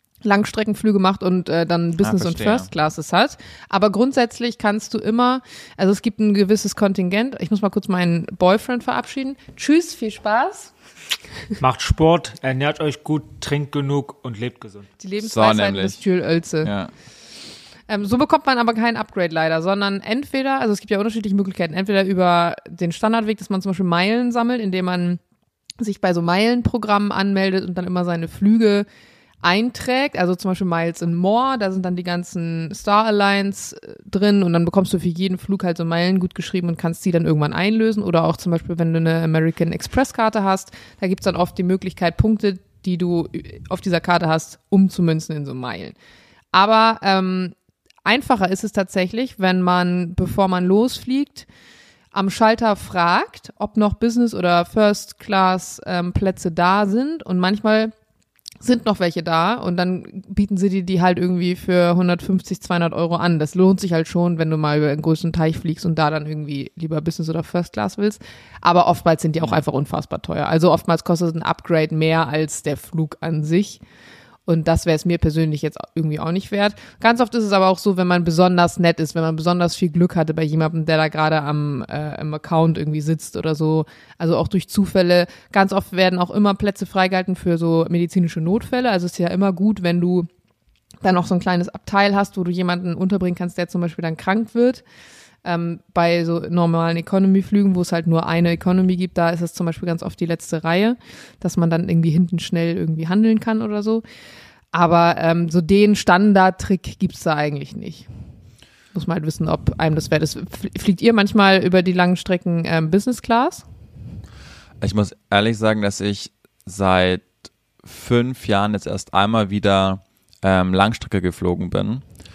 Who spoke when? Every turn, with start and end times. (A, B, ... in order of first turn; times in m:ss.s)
0:00.2-0:10.7 A
0:02.0-0:02.7 B
0:11.6-0:14.9 C
0:15.0-0:16.7 A
0:15.2-0:16.0 B
0:16.6-0:16.9 B
0:17.9-0:25.2 A
0:25.8-0:28.8 A
0:29.4-0:45.9 A
0:46.5-0:51.5 A
0:52.1-0:57.9 A
0:58.6-1:13.8 A
1:14.4-1:30.3 A
1:31.0-1:34.8 A
1:35.4-1:44.0 A
1:44.7-1:48.1 A
1:48.9-1:53.6 A
1:54.8-2:02.0 B